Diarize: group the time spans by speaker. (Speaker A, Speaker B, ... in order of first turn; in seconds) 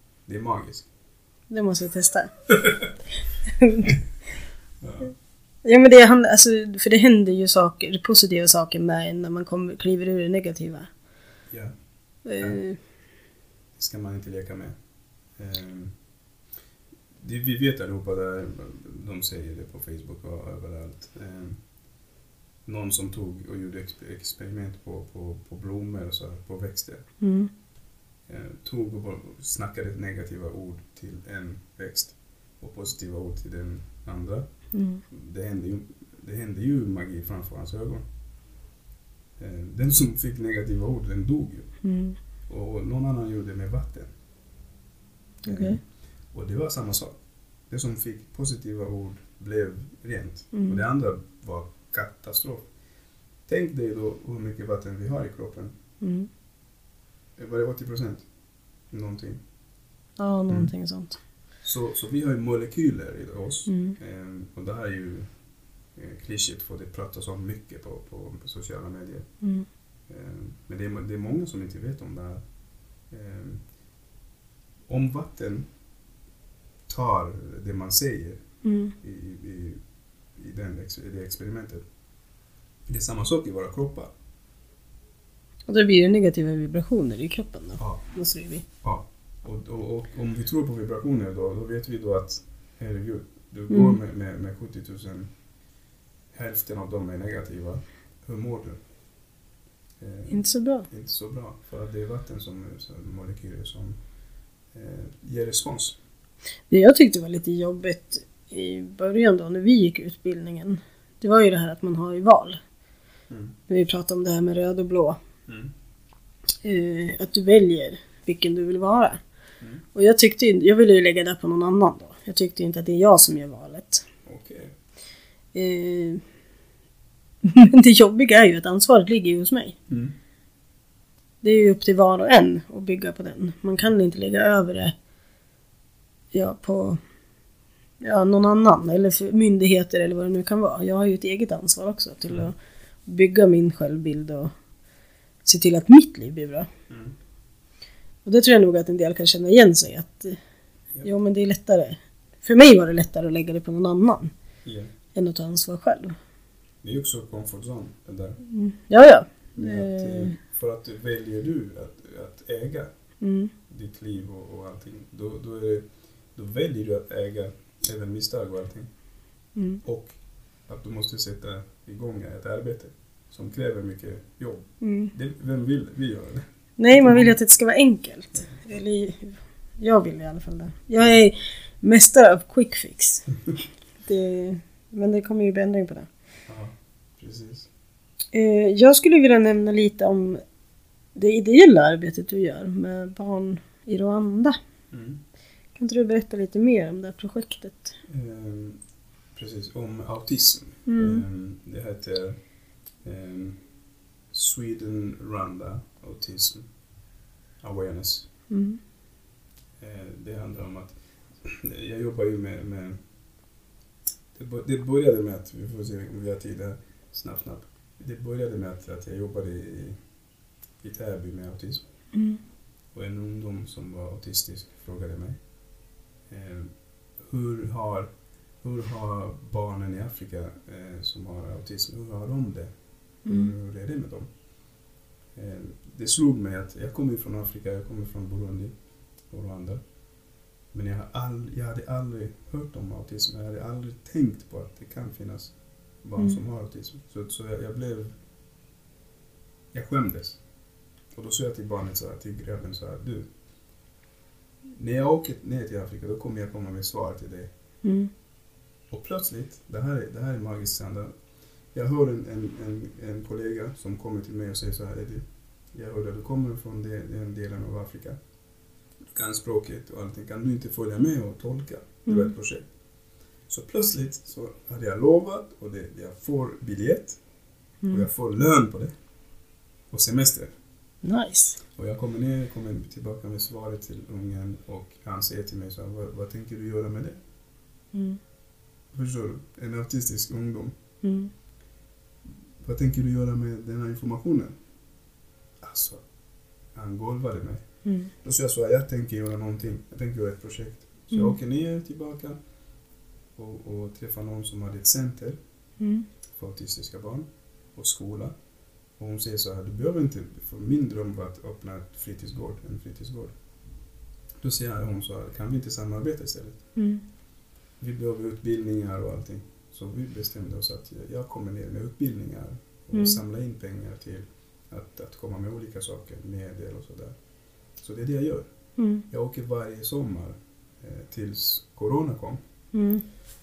Speaker A: 0.3-0.9, 4.8-5.1, 12.4-12.6, 13.8-14.8, 15.4-15.9, 17.2-21.6, 22.6-27.0, 28.3-34.5, 35.1-38.0, 39.4-41.7, 42.5-44.1, 45.5-52.7, 53.5-55.7, 57.4-58.2, 58.9-59.4, 61.6-65.3, 66.0-69.3, 70.1-72.4, 73.1-73.6, 74.9-75.7, 76.9-78.4, 79.0-79.8, 80.4-81.8, 82.9-84.1, 88.8-95.3, 96.3-98.8, 100.0-104.0, 104.7-106.0, 113.3-113.6, 115.5-115.7, 124.2-124.7, 129.9-130.1, 146.9-147.1, 154.6-154.9, 156.8-158.4, 159.6-162.9, 163.7-168.9, 169.8-170.2, 170.7-177.3, 186.5-187.7, 194.9-195.2, 198.1-198.8, 199.3-202.4, 203.0-203.6, 204.3-206.7, 207.6-208.3, 209.8-213.0, 214.3-220.0, 220.8-221.8, 222.9-225.4, 226.3-228.1, 228.6-232.7, 233.2-234.3, 235.3-238.7, 239.3-239.8, 240.7-248.2, 249.7-250.4, 251.1-253.3, 254.7-257.5, 258.9-261.1, 261.7-265.2, 265.7-268.2, 269.1-272.7, 273.5-277.2, 277.9-278.9, 279.9-280.5, 281.7-287.2, 288.9-290.7, 292.6-294.5, 295.6-296.0, 296.7-297.6, 298.2-302.4, 303.4-305.4, 306.3-308.3, 309.0-313.3, 314.4-316.6, 317.8-327.1, 327.8-328.5, 329.1-332.4
Speaker B: 1.5-2.9, 3.5-4.0, 5.6-10.9, 12.2-12.8, 27.2-27.5, 34.7-35.0, 41.8-42.2, 45.4-45.8, 50.5-50.8, 56.0-56.3, 60.2-61.2, 63.7-64.0, 78.6-78.9, 85.7-88.6, 93.7-94.0, 100.3-100.9, 106.7-112.6, 113.7-115.2, 116.6-119.2, 119.9-124.0, 125.5-126.2, 127.4-129.8, 131.4-134.9, 136.3-137.0, 138.0-142.6, 143.1-144.5, 145.4-146.7, 148.2-150.4, 151.0-154.3, 155.1-156.1, 158.4-160.4, 163.2-163.5, 169.6-169.8, 174.8-175.1, 176.8-183.3, 184.0-186.1, 188.3-190.4, 191.1-194.6, 195.8-197.9, 200.9-201.2, 208.5-208.8, 222.1-222.4, 233.2-233.5, 257.8-258.1, 272.1-272.3, 281.0-281.6, 287.9-288.2, 291.0-291.3, 297.8-298.1, 305.8-306.1, 316.8-317.0, 328.8-329.0, 332.7-333.0